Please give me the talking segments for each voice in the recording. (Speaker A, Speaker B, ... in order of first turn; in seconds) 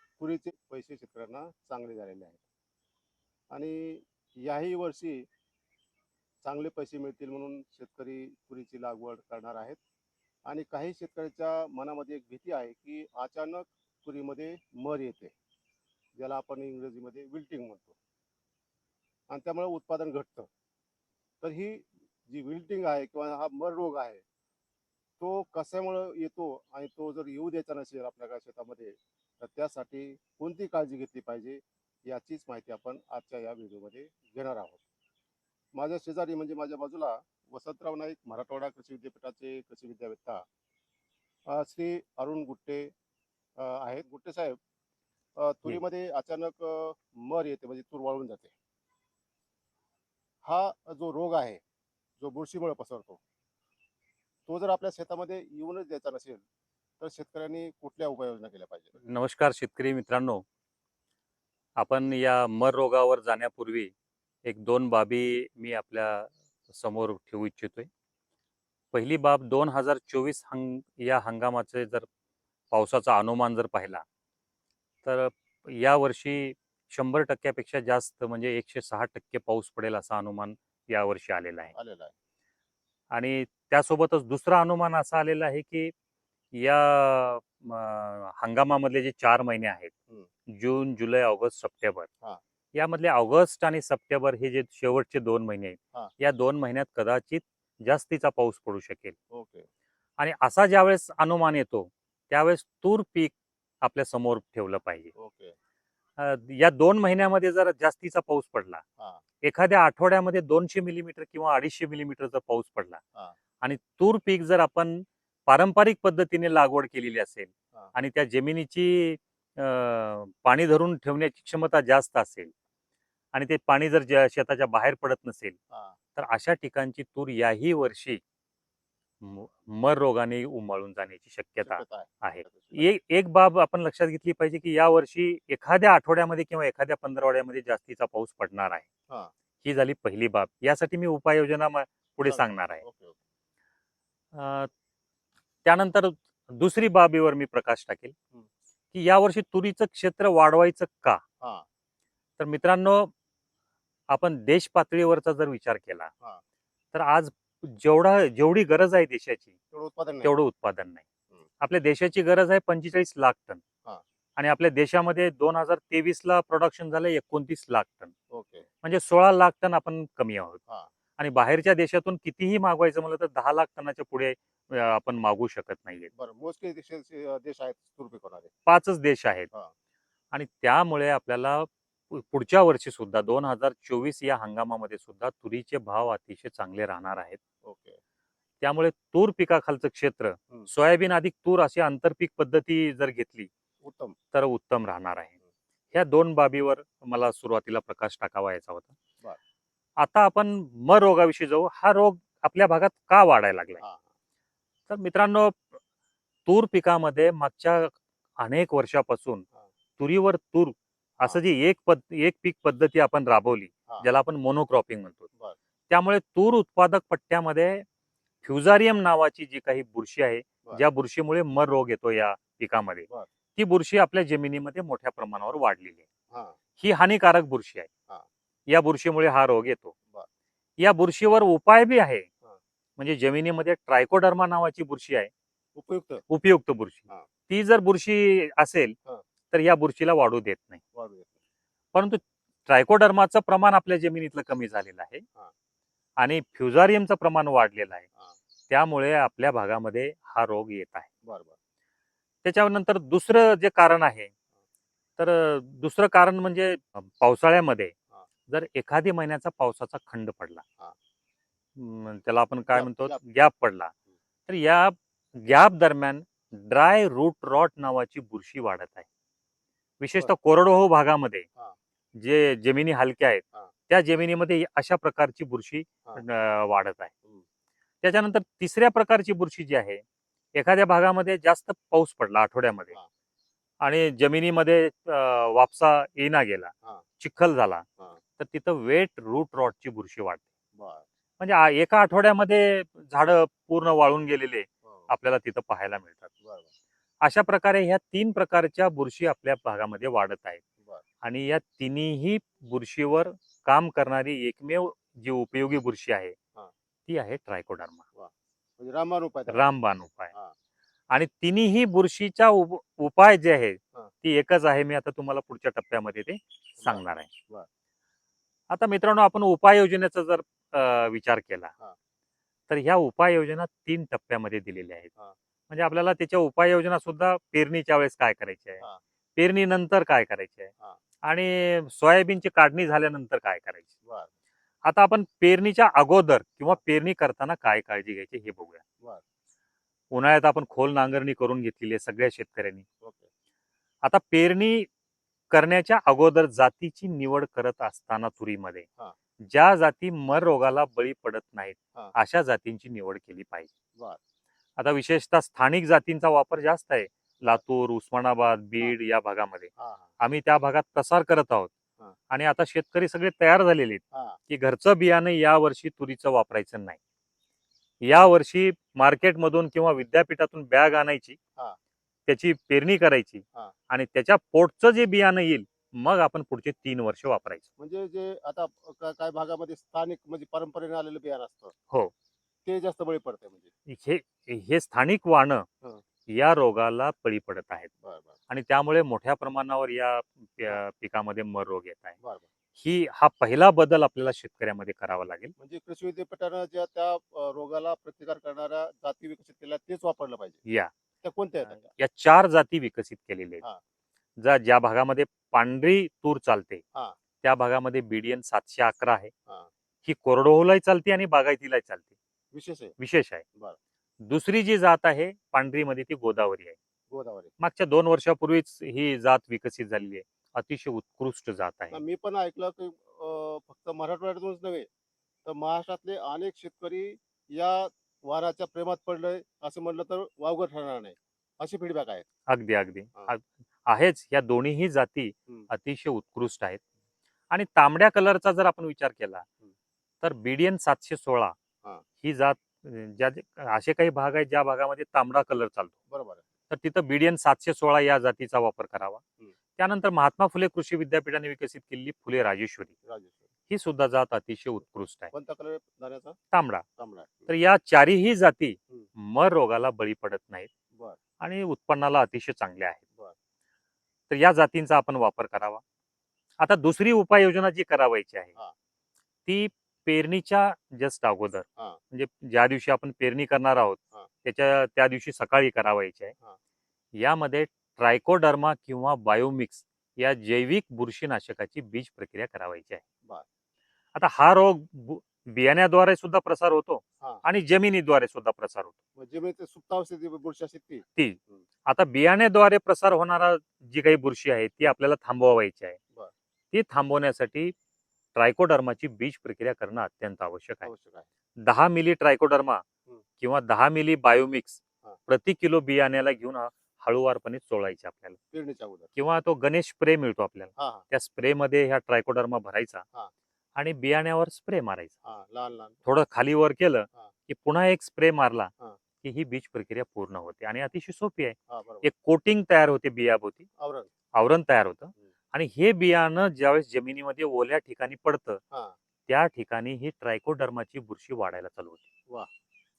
Speaker A: 0.2-2.4, 3.5-5.2, 6.4-9.8, 10.5-15.3, 16.2-17.9, 19.3-20.5, 21.4-24.2, 25.2-34.8, 35.8-40.5, 41.5-42.9, 43.6-44.6, 45.4-48.5, 50.4-51.6, 52.2-53.2, 54.5-56.4, 57.0-59.0, 81.7-82.1, 99.3-99.7, 105.1-105.5, 125.7-126.0, 131.6-132.9, 142.3-143.2, 159.7-160.3, 168.3-168.7, 176.1-178.5, 187.7-188.0, 193.8-194.2, 226.3-226.6, 235.8-236.2, 240.9-241.3, 251.2-251.6, 262.7-263.2, 290.8-291.1, 296.4-296.7, 308.1-309.6, 316.8-317.7, 343.0-343.3, 359.8-360.1, 364.1-364.4, 377.8-381.7, 382.7-383.7, 388.0-388.3, 392.2-392.4, 395.6-400.6, 401.2-401.9, 412.5-412.9, 417.1-417.5, 421.9-424.9, 425.4-432.2, 446.1-446.4, 453.1-453.4, 455.3-456.4, 457.0-457.5, 489.2-491.6, 500.8-501.2, 508.5-509.1, 510.8-511.0, 515.2-516.0, 521.7-522.1, 523.8-524.1
Speaker B: 59.0-60.4, 61.8-63.9, 64.4-67.9, 68.9-72.0, 72.7-74.0, 75.0-81.7, 83.1-85.9, 86.5-89.9, 90.5-92.1, 92.7-99.2, 100.2-105.1, 106.2-108.8, 109.4-113.0, 113.6-122.5, 123.3-125.6, 126.2-128.2, 129.2-138.9, 139.6-142.8, 144.3-144.7, 145.7-148.2, 148.9-151.2, 152.4-153.1, 154.1-156.1, 156.9-159.5, 160.2-161.0, 161.6-163.6, 164.4-168.1, 168.8-170.6, 171.2-176.1, 178.7-179.5, 180.3-187.4, 188.6-193.5, 194.3-195.3, 195.9-198.9, 200.0-203.8, 204.9-205.8, 206.5-209.4, 210.0-215.3, 215.9-217.8, 218.4-226.1, 226.8-227.9, 228.7-229.9, 230.8-232.3, 233.0-235.3, 236.3-239.0, 239.5-240.8, 241.9-245.2, 246.2-248.1, 248.7-251.1, 252.4-254.3, 255.2-257.9, 258.5-260.6, 261.8-263.9, 264.5-269.1, 270.0-271.5, 272.2-277.1, 278.0-280.0, 280.6-282.9, 283.8-287.9, 288.4-290.4, 291.4-296.3, 297.2-300.6, 301.2-306.4, 307.1-308.0, 309.5-310.3, 311.1-317.3, 318.7-321.7, 322.7-325.1, 325.7-328.8, 329.4-330.7, 331.2-333.9, 334.9-338.8, 340.1-342.8, 344.0-344.9, 345.5-348.9, 349.4-353.7, 354.8-361.7, 362.3-367.0, 368.0-371.4, 372.3-377.7, 383.9-385.7, 386.3-387.9, 388.5-392.2, 392.8-395.5, 400.7-400.9, 401.8-403.6, 404.4-406.8, 407.4-409.3, 410.1-412.1, 413.0-413.4, 414.2-416.8, 417.6-422.0, 432.5-436.8, 437.5-439.4, 440.2-441.6, 442.2-445.9, 446.7-449.2, 449.8-452.9, 453.7-455.3, 456.5-456.8, 457.5-460.7, 461.4-463.0, 464.3-465.8, 466.6-468.5, 469.5-476.3, 477.1-483.0, 484.1-488.9, 491.2-496.0, 496.7-497.7, 498.4-500.9, 501.6-502.8, 503.4-508.4, 509.2-513.0, 513.8-515.1, 516.1-518.7, 519.2-523.7, 524.3-528.6, 529.3-532.0